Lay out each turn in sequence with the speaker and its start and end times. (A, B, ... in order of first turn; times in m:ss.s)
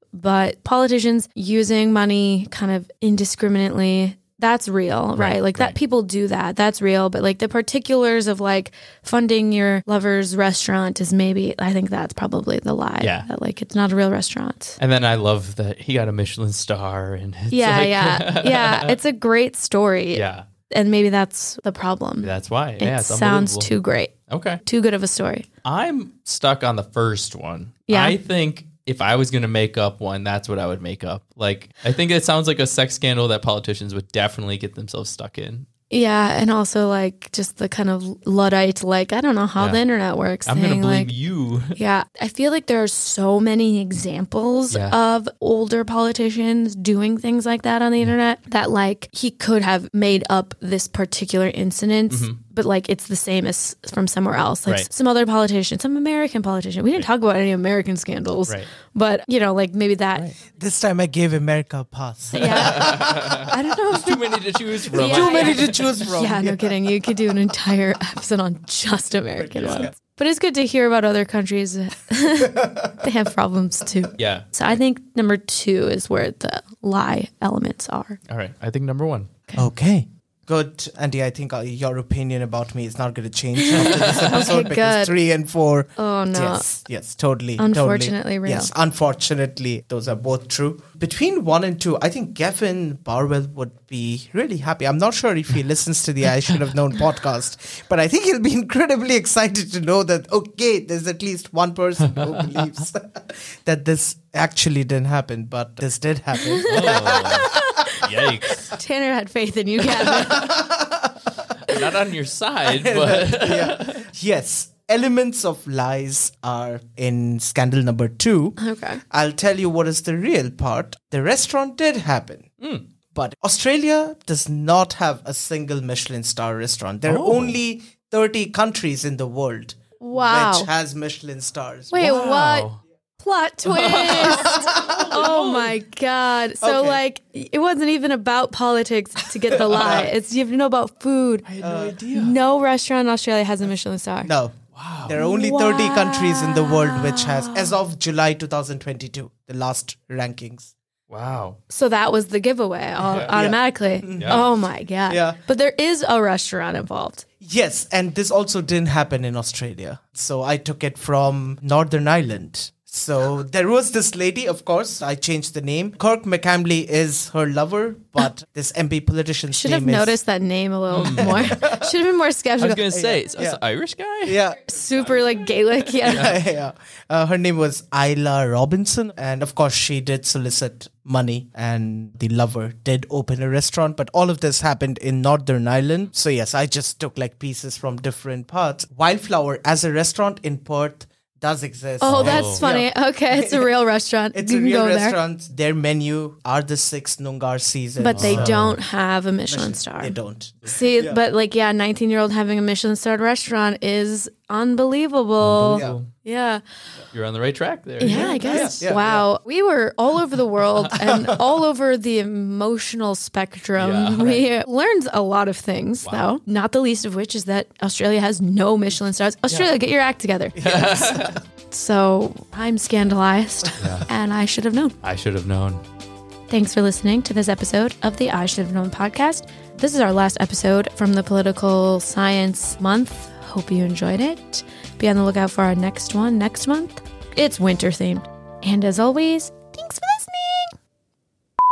0:00.2-0:14.8 A
0:05.1-0:05.8 B
0:13.0-0:13.3 B
0:14.8-0:19.0 B
0:17.5-0:25.5 A
0:20.1-0:20.4 B
0:22.2-0:23.7 B
0:24.3-0:24.6 B
0:25.6-0:35.6 B
0:27.9-0:28.2 A
0:35.9-0:41.1 A
0:40.4-0:41.8 B
0:41.7-1:00.3 A
0:44.7-0:45.0 B
0:52.1-0:52.4 B
1:00.5-1:03.5 C
1:02.3-1:18.2 A
1:02.3-1:06.1 B
1:04.9-1:06.7 C
1:09.4-1:09.9 C
1:09.6-1:09.9 B
1:12.4-1:13.0 C
1:14.2-1:14.4 B
1:18.3-1:19.3 B
1:19.6-1:47.6 C
1:23.6-1:25.1 A
1:23.7-1:24.5 B
1:26.0-1:26.7 A
1:27.6-1:28.7 A
1:42.0-1:42.6 B
1:46.4-1:50.6 A
1:46.7-1:48.7 B
1:49.8-1:51.8 C
1:51.6-1:54.1 B
1:52.6-1:58.6 C
1:58.6-1:59.0 A
1:59.1-2:02.5 C
2:02.6-2:02.8 B
2:03.1-2:12.0 C
2:07.0-2:07.6 B
2:10.0-2:10.7 A
2:11.9-2:21.5 A
2:12.0-2:12.8 B
2:13.6-2:15.8 B
2:14.4-2:15.0 C
2:16.6-2:17.0 C
2:19.5-2:20.1 C
2:19.6-2:20.1 B
2:21.4-2:22.4 B
2:21.6-2:22.0 C
2:22.1-2:24.3 A
2:24.2-2:30.7 C
2:24.7-2:25.2 B
2:25.1-2:27.7 A
2:31.1-2:31.6 B
2:31.7-2:37.2 A
2:33.1-2:33.3 B
2:33.2-2:35.4 C
2:37.4-2:50.2 C
2:49.5-2:52.8 A
2:50.9-2:51.6 B
2:51.0-2:52.0 C
2:52.6-2:54.4 B
2:52.9-2:53.6 C
2:54.2-2:54.7 C
2:54.6-2:56.4 A
2:56.0-2:56.4 B
2:56.0-3:13.8 C
3:12.0-3:15.2 A
3:12.0-3:12.6 B
3:14.3-3:18.6 C
3:18.0-3:26.6 A
3:18.1-3:18.8 B
3:19.5-3:21.2 C
3:25.4-3:26.1 B
3:25.7-3:26.0 C
3:27.1-3:28.9 B
3:28.0-3:40.6 A
3:28.0-3:29.3 C
3:30.9-3:31.6 C
3:33.8-3:34.5 B
3:36.0-3:36.3 B
3:40.5-3:41.4 C
3:40.6-3:41.4 B
3:41.7-3:45.0 A
3:43.8-3:44.1 B
3:45.0-3:45.8 B
3:46.5-4:00.7 A